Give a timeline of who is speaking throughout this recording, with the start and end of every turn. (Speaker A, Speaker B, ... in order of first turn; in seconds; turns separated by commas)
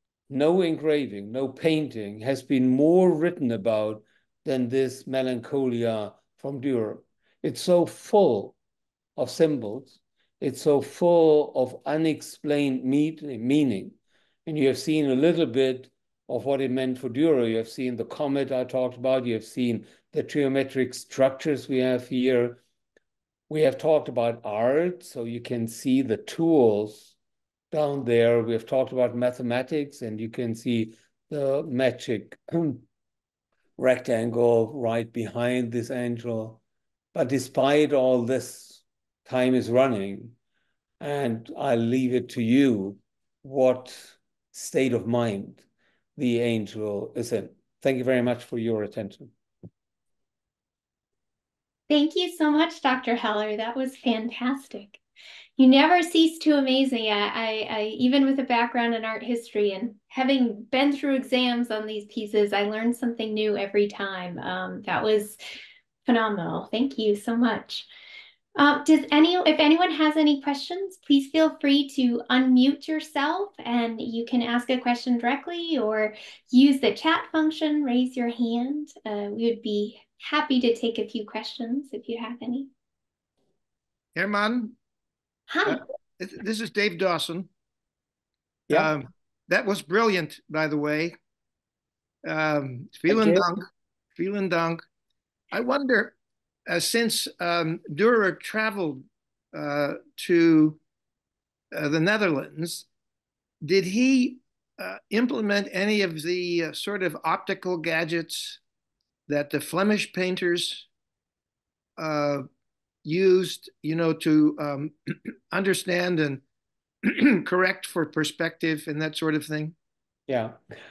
Speaker A: 0.3-8.5, Speaker A: 9.2-13.9, Speaker A: 14.4-22.6, Speaker A: 23.5-27.1, Speaker A: 27.7-32.8, Speaker A: 33.8-36.6, Speaker A: 37.1-40.3, Speaker A: 41.0-45.6, Speaker A: 46.1-49.3, Speaker B: 51.9-55.0, Speaker B: 55.6-65.4, Speaker B: 66.0-67.9, Speaker B: 68.5-82.7, Speaker C: 84.1-84.7, Speaker B: 85.5-85.8, Speaker C: 85.6-87.5, Speaker C: 88.7-91.1, Speaker C: 92.2-93.6, Speaker A: 93.1-93.4, Speaker C: 94.2-94.8, Speaker C: 95.5-100.8, Speaker C: 101.7-102.9, Speaker C: 103.6-108.6, Speaker C: 109.3-110.9, Speaker C: 112.0-112.5, Speaker C: 113.0-116.4, Speaker C: 117.0-119.7, Speaker A: 120.3-120.6